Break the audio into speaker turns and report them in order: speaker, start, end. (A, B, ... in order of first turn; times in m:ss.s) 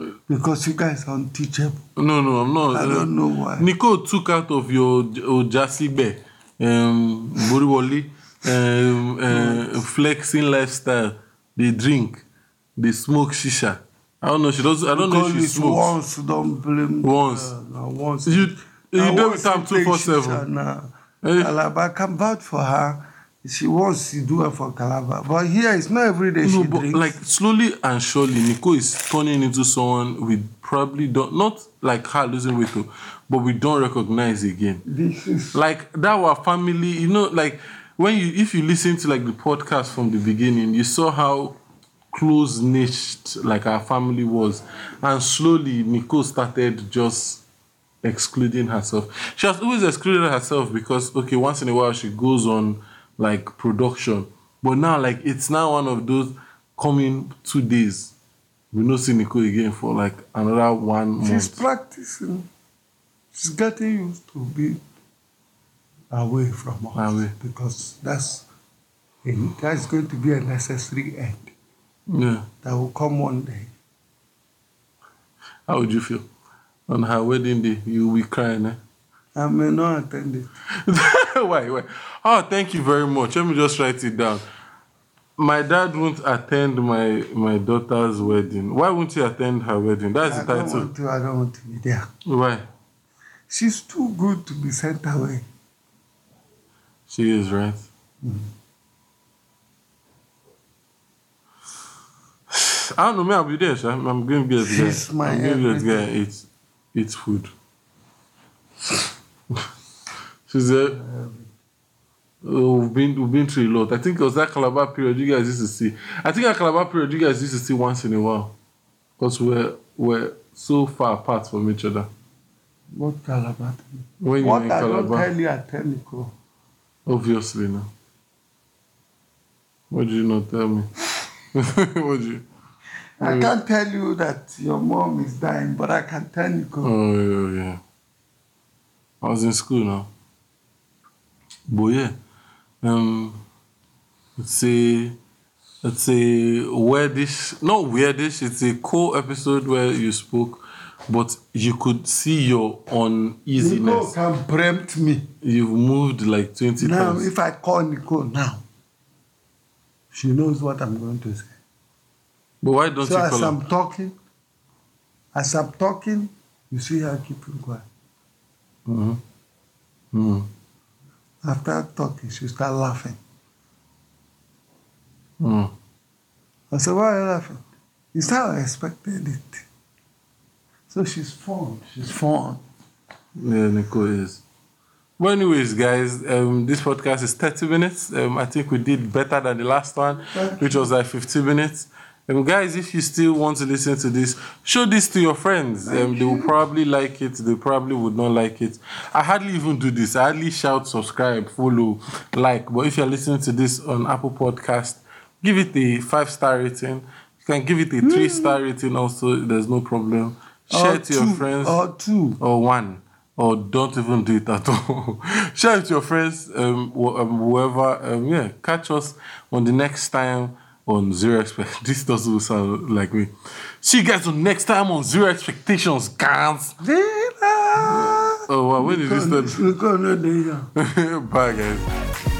0:00.3-0:01.8 A
0:02.0-0:12.2 B
0:02.7-0:03.7 A
0:09.3-0:09.8 A
0:12.8-0:15.9 B
0:14.9-0:27.2 A
0:17.0-0:17.5 B
0:18.2-0:20.4 B
0:21.2-0:21.5 B
0:26.4-0:34.8 B
0:34.8-0:35.6 A
0:35.5-0:41.6 B
0:42.1-0:47.4 B
0:48.0-0:58.1 B
0:58.7-1:01.6 B
1:01.2-1:02.5 A
1:03.3-1:04.8 A
1:06.1-1:08.4 A
1:06.9-1:07.3 B
1:09.2-1:11.5 A
1:12.1-1:12.5 B
1:12.6-1:13.7 A
1:15.7-1:16.3 B
1:16.9-1:18.8 B
1:19.3-1:20.5 A
1:20.8-1:24.4 B
1:25.4-1:30.9 B
1:30.2-1:32.1 A
1:32.2-1:32.6 B
1:33.5-1:35.4 A
1:37.1-1:37.9 B
1:38.2-1:38.5 A
1:42.5-1:47.5 B
1:44.6-1:46.1 A
1:50.5-1:51.0 B
1:50.9-1:51.5 A
1:52.4-1:58.5 B
1:59.2-2:02.1 B
2:02.9-2:06.3 A
2:04.2-2:05.3 B
2:07.1-2:07.9 B
2:09.9-2:10.9 B
2:11.5-2:12.4 B
2:13.2-2:16.9 A
2:13.2-2:13.5 B
2:16.8-2:17.8 B
2:19.2-2:20.1 B
2:21.7-2:22.2 B
2:22.8-2:23.4 B
2:24.4-2:25.2 B
2:25.8-2:34.1 B
2:33.6-2:35.3 A
2:35.4-2:37.3 B
2:36.8-2:38.6 A
2:40.1-2:41.6 A
2:42.6-2:43.6 B
2:43.0-2:44.1 A
2:45.3-2:47.9 A
2:48.8-2:49.2 B
2:50.1-2:50.5 B
2:51.4-2:53.2 A
2:55.4-2:55.7 B
2:56.7-2:59.6 A
3:00.9-3:02.6 A
3:03.4-3:04.4 B
3:05.2-3:31.8 B
3:10.2-3:10.9 A
3:15.8-3:16.5 A
3:28.0-3:28.6 A
3:30.7-3:32.4 A
3:32.4-3:46.8 B
3:46.8-3:50.7 A
3:47.9-3:49.6 B
3:50.8-3:51.9 B